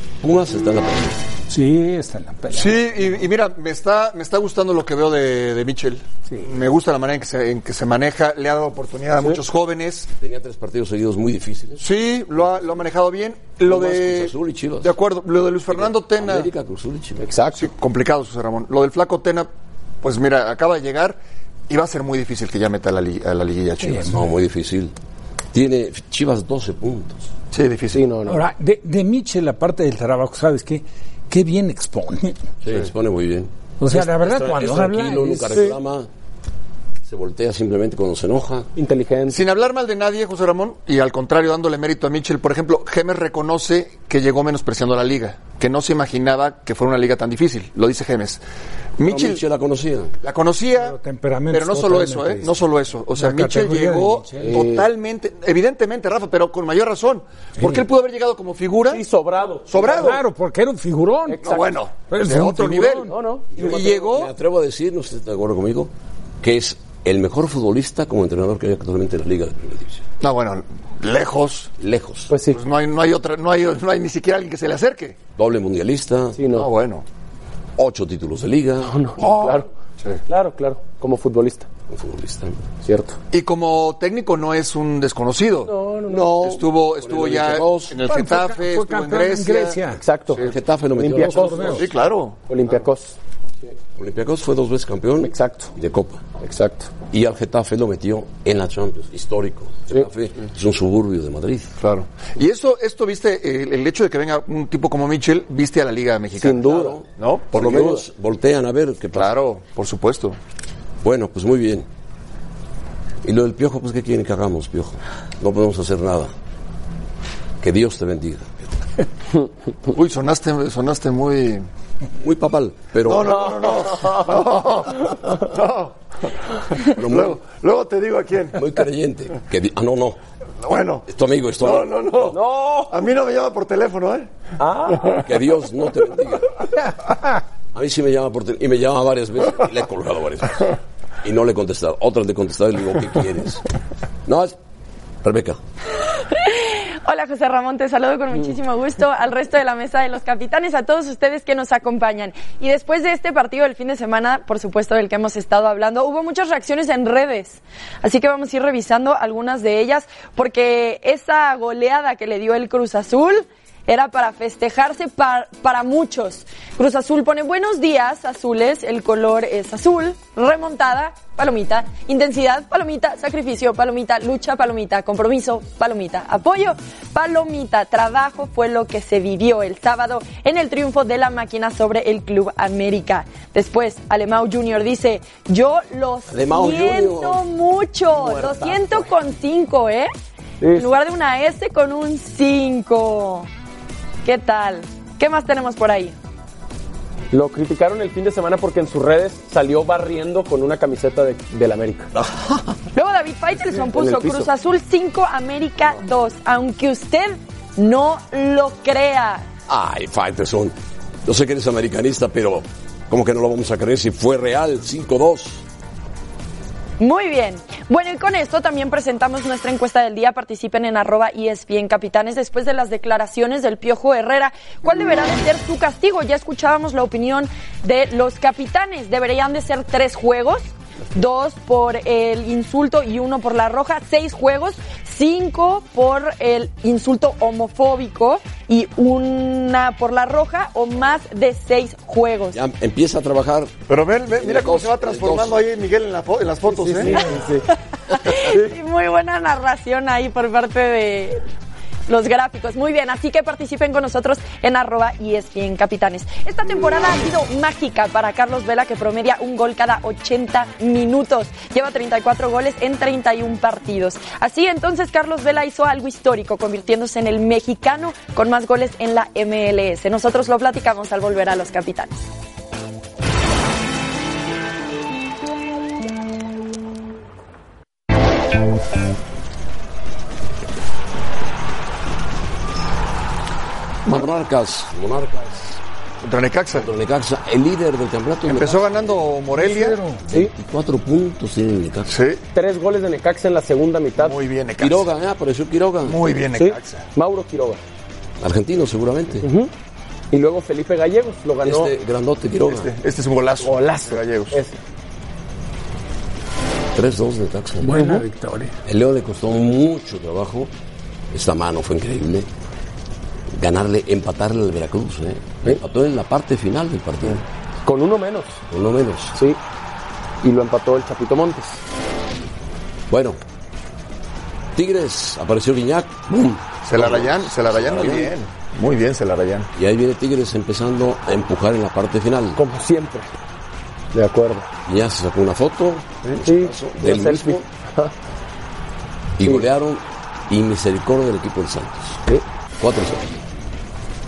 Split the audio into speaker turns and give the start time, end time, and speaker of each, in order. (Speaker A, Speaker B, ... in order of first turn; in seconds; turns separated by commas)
Speaker A: 0.2-1.2, Speaker B: 1.5-2.8, Speaker C: 2.5-10.1, Speaker A: 10.2-11.8, Speaker C: 11.8-16.5, Speaker A: 13.6-14.9, Speaker A: 15.7-17.2, Speaker D: 17.2-17.7, Speaker C: 17.6-19.5, Speaker C: 20.0-24.1, Speaker B: 23.8-24.2, Speaker A: 24.1-24.9, Speaker A: 25.5-27.3, Speaker C: 27.5-28.1, Speaker D: 27.9-28.4, Speaker B: 28.3-32.4, Speaker A: 32.6-36.1, Speaker B: 33.8-35.6, Speaker D: 35.5-35.8, Speaker A: 37.0-38.7, Speaker D: 38.8-39.4, Speaker C: 39.3-48.4, Speaker C: 49.0-49.4, Speaker A: 49.0-50.1, Speaker C: 50.2-50.9, Speaker B: 50.8-54.7, Speaker C: 51.5-59.0, Speaker D: 54.4-54.9, Speaker D: 58.9-60.2, Speaker C: 59.7-60.2, Speaker B: 59.9-63.1, Speaker D: 61.3-61.8, Speaker C: 61.4-64.3, Speaker D: 63.1-64.0, Speaker A: 63.5-70.0, Speaker C: 70.2-71.7, Speaker A: 71.8-72.3, Speaker D: 72.3-72.6, Speaker C: 72.5-75.2, Speaker A: 75.3-76.4, Speaker D: 76.3-76.7, Speaker C: 76.5-77.0, Speaker A: 77.8-79.0, Speaker D: 78.8-79.7, Speaker D: 80.3-81.7, Speaker A: 81.9-82.6, Speaker D: 82.8-83.2, Speaker C: 83.3-85.7, Speaker D: 85.7-86.4, Speaker A: 86.1-87.9, Speaker C: 86.4-89.8, Speaker B: 88.1-90.0, Speaker D: 89.9-90.4, Speaker A: 90.3-91.8, Speaker D: 91.0-91.9, Speaker B: 91.1-91.8, Speaker C: 91.8-92.4, Speaker D: 92.5-93.2, Speaker A: 94.0-96.2, Speaker D: 95.2-95.7, Speaker D: 96.4-96.9, Speaker A: 97.0-101.7, Speaker C: 101.8-106.6, Speaker D: 106.4-107.0, Speaker A: 106.6-109.3, Speaker C: 107.2-107.9, Speaker D: 107.7-108.0, Speaker C: 109.1-110.4, Speaker A: 111.0-111.8, Speaker A: 113.2-116.3, Speaker A: 117.6-118.7, Speaker C: 119.9-121.7, Speaker A: 122.2-123.5, Speaker C: 123.0-128.7, Speaker A: 126.9-127.4, Speaker A: 128.6-130.2, Speaker C: 130.6-134.3, Speaker A: 131.1-132.3, Speaker D: 132.3-132.9, Speaker D: 134.6-135.3, Speaker A: 135.2-136.5, Speaker A: 137.7-140.7, Speaker A: 141.2-143.6, Speaker A: 144.2-144.5, Speaker A: 145.2-145.6, Speaker E: 146.0-190.1, Speaker A: 186.3-187.4, Speaker D: 188.2-189.1, Speaker D: 190.6-190.9, Speaker E: 190.7-193.5, Speaker E: 194.2-196.1, Speaker D: 197.3-202.1, Speaker A: 202.1-202.7, Speaker E: 202.9-209.4, Speaker D: 203.8-204.5, Speaker A: 209.7-215.6, Speaker E: 217.0-242.6, Speaker A: 242.5-243.7, Speaker C: 243.9-247.3, Speaker A: 244.4-245.6, Speaker D: 246.7-247.7, Speaker E: 247.7-251.4, Speaker E: 252.1-272.1, Speaker A: 284.0-285.8, Speaker C: 286.2-286.9, Speaker A: 286.7-289.0, Speaker C: 288.4-290.0, Speaker B: 289.5-290.2, Speaker A: 290.2-292.1, Speaker C: 292.1-292.4, Speaker D: 292.5-294.4, Speaker C: 294.2-295.1, Speaker A: 294.8-296.2, Speaker C: 296.0-297.0, Speaker D: 296.5-297.8, Speaker A: 298.4-299.5, Speaker D: 299.4-299.7, Speaker D: 300.3-301.9, Speaker A: 301.6-302.9, Speaker C: 302.6-304.6, Speaker D: 303.6-304.7, Speaker A: 306.9-307.9, Speaker B: 307.8-308.7, Speaker D: 307.8-308.2, Speaker A: 308.9-310.7, Speaker A: 311.3-312.5, Speaker A: 313.5-317.4, Speaker D: 317.8-318.6, Speaker A: 318.7-319.4, Speaker D: 319.3-319.6, Speaker D: 320.4-321.8, Speaker A: 323.1-323.4, Speaker A: 324.7-328.3, Speaker C: 326.8-329.7, Speaker A: 329.7-332.6, Speaker D: 332.6-333.3, Speaker D: 334.1-334.7, Speaker A: 334.8-337.7, Speaker D: 336.4-338.1, Speaker A: 339.4-342.2, Speaker D: 339.4-339.7, Speaker A: 342.8-343.4